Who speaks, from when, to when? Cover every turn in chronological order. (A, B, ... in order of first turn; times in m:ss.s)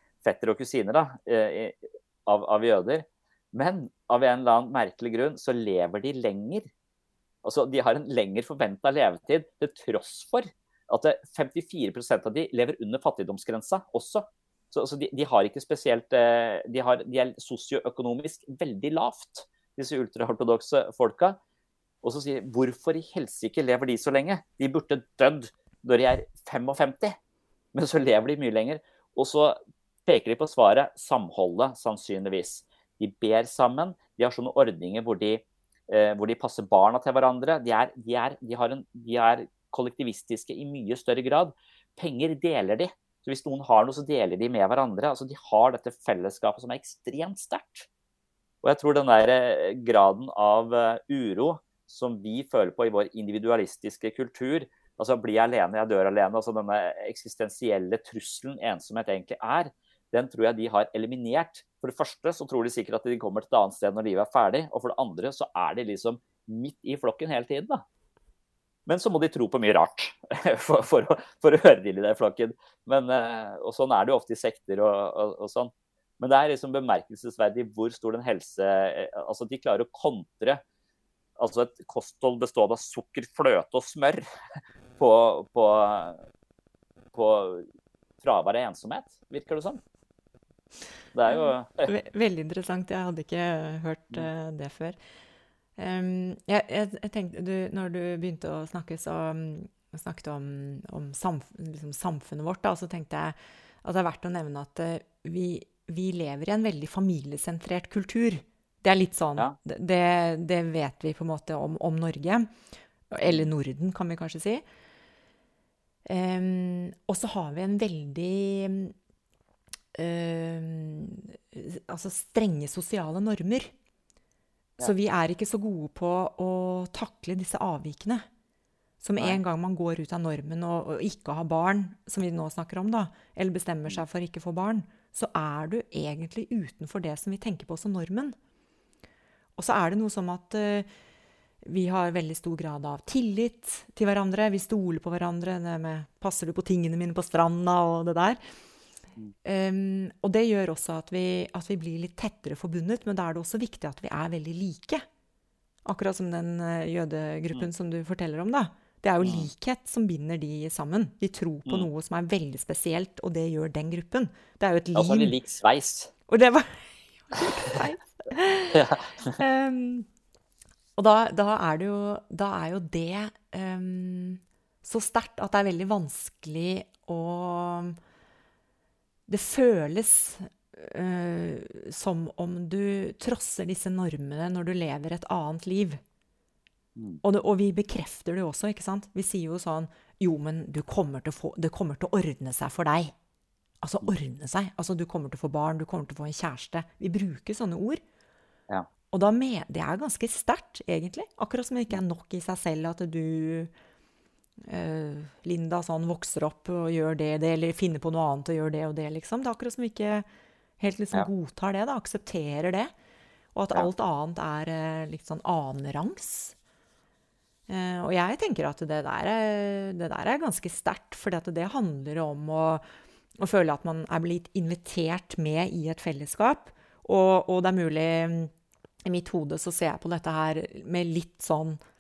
0:00.2-0:06.7 A
0:07.4-0:21.4 A
0:22.0-0:27.2 A
0:27.7-0:47.9 A
0:48.6-1:07.8 A
1:08.9-1:20.6 A
1:21.4-1:24.2 A
1:25.0-1:26.2 A
1:27.1-1:27.7 A
1:28.2-1:29.8 A
1:31.1-1:31.9 A
1:31.3-1:35.0 B
1:35.8-1:52.5 B
1:53.1-1:54.6 B
1:53.2-1:53.5 A
1:56.1-1:58.9 B
1:59.9-2:03.7 B
2:04.8-2:08.2 B
2:09.0-2:18.4 B
2:19.6-2:20.9 B
2:21.6-2:28.4 B
2:29.4-2:35.0 B
2:35.9-2:45.4 B
2:39.2-2:39.5 A
2:45.0-2:46.1 A
2:46.3-2:50.1 B
2:48.7-2:49.4 A
2:51.0-2:58.0 B
2:59.3-3:06.0 B
3:07.0-3:07.2 A
3:07.2-3:13.1 B
3:13.8-3:18.0 B
3:19.1-3:23.7 B
3:24.7-3:30.3 B
3:30.8-3:32.9 B
3:33.6-3:36.6 B
3:37.7-3:42.8 B
3:43.4-3:48.5 B
3:49.0-3:51.8 B